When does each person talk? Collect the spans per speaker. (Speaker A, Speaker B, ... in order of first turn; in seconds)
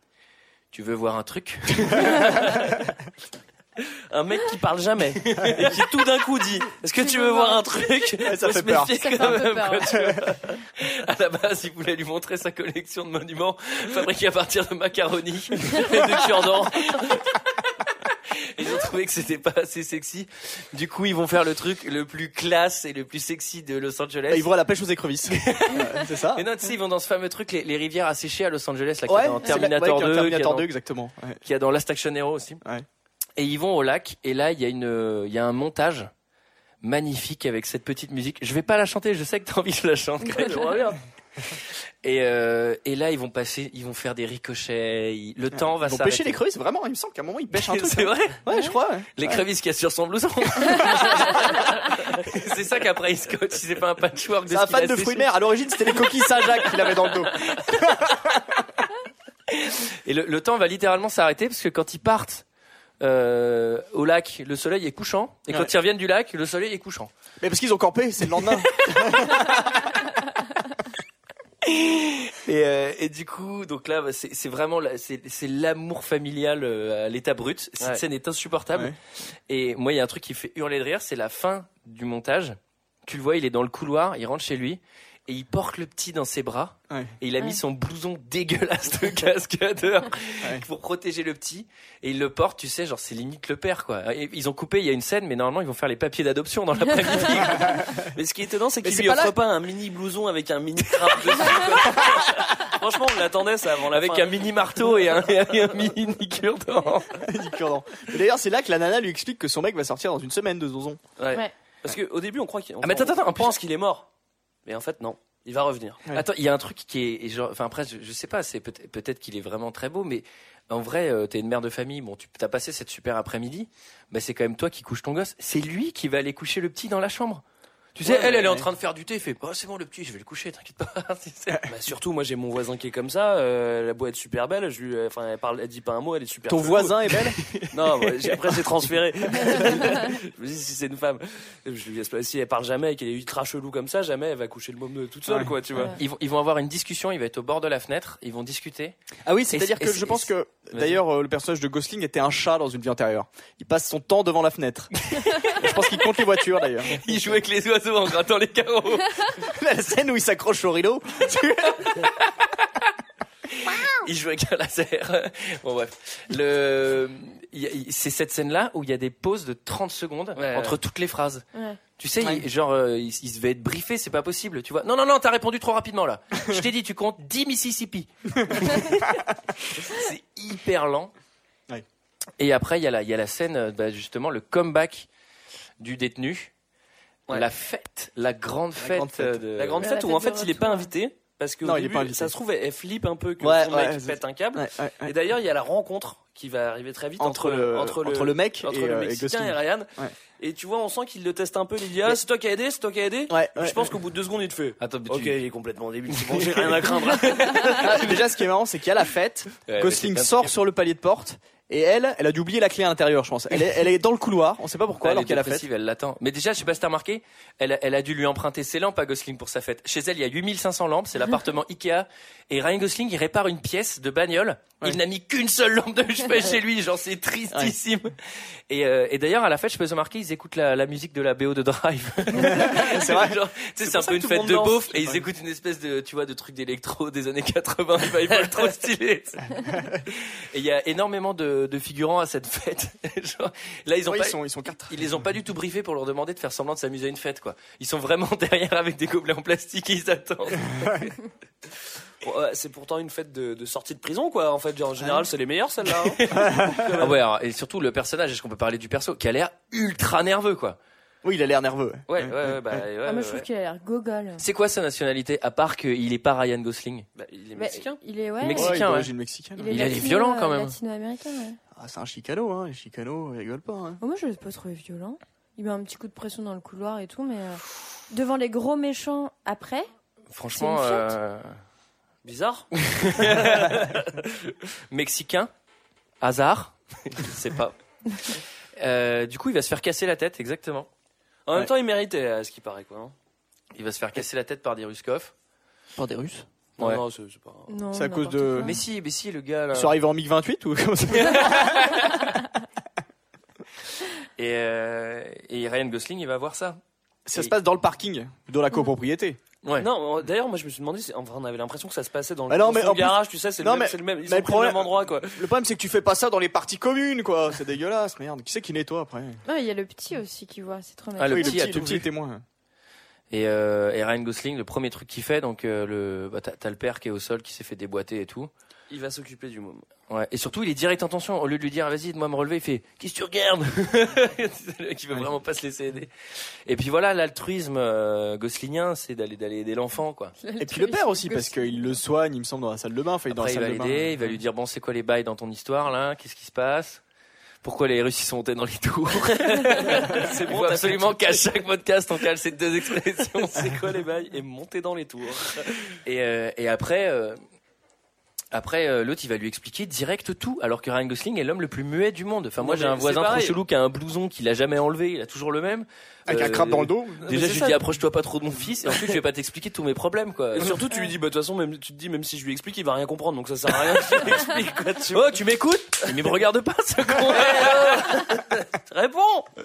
Speaker A: 0.7-2.8, 5.2-5.8, 9.4-9.8, 10.8-17.3, 18.5-24.5, 25.3-30.7, 31.4-32.6, 33.4-36.1, 36.8-40.7, 41.5-46.4, 47.5-48.5, 49.1-55.3, 56.6-58.0, 59.5-62.4, 63.0-67.1, 68.8-69.4, 71.6-78.9, 79.5-97.8, 101.1-102.2, 103.9-107.2, 112.8-113.6, 116.1-127.4, 128.0-131.6, 145.9-148.9, 149.5-151.0, 155.1-155.7, 156.9-159.3, 163.6-171.4, 172.0-179.2, 179.8-181.1, 182.4-185.1, 185.8-186.5, 187.3-189.8, 204.8-205.4, 206.3-206.6, 209.7-210.5, 215.0-228.1, 228.7-239.5, 240.1-251.1, 256.2-260.8, 264.4-267.1, 268.4-269.1, 269.7-270.8, 280.3-281.5, 282.9-283.9, 284.9-285.5, 286.2-287.8, 288.3-290.9, 293.7-295.3, 298.6-299.9, 301.1-302.1, 304.4-306.8, 321.1-322.1, 323.3-328.5, 330.1-336.1, 336.6-340.3, 343.3-347.0, 347.6-353.7, 356.0-357.4, 358.5-370.8, 375.1-378.4
Speaker B: 4.1-10.5, 15.9-16.7, 40.3-41.0, 98.1-104.5, 111.2-114.1, 114.7-116.0, 128.0-128.6, 131.7-137.1, 137.7-146.0, 170.3-170.8, 189.6-208.2, 233.8-234.9, 252.2-257.2, 262.1-263.5, 267.1-268.0, 282.2-284.2, 291.4-293.1, 296.8-297.7, 309.8-315.5, 328.9-329.9, 349.3-351.5, 353.4-355.9, 362.6-363.6, 367.2-367.8, 368.9-369.1, 370.5-375.4, 377.2-379.5
Speaker C: 7.0-7.7, 8.9-9.9, 171.5-171.8, 189.8-190.9, 263.0-264.4, 267.6-268.9, 269.6-271.6, 274.0-279.9, 280.6-281.1, 297.7-298.8, 319.4-321.6, 340.4-341.9
Speaker D: 8.2-9.3, 9.9-10.2, 24.3-26.4, 29.1-31.4, 45.5-49.4, 54.5-58.6, 67.4-69.9, 97.6-98.1, 98.8-99.3, 107.2-111.0, 136.5-137.4, 145.3-145.5, 149.2-157.1, 159.4-162.1, 172.2-172.4, 178.4-178.7, 188.8-189.4, 191.6-192.3, 193.4-195.1, 197.2-200.1, 203.3-203.9, 207.8-215.7, 232.4-233.4, 239.7-239.9, 244.1-245.1, 256.3-256.8, 261.2-262.8, 268.5-269.9, 271.7-274.0, 295.9-296.4, 297.9-298.7, 299.7-301.9, 307.2-309.4, 312.5-319.4, 321.3-322.4, 340.6-344.4, 366.3-367.3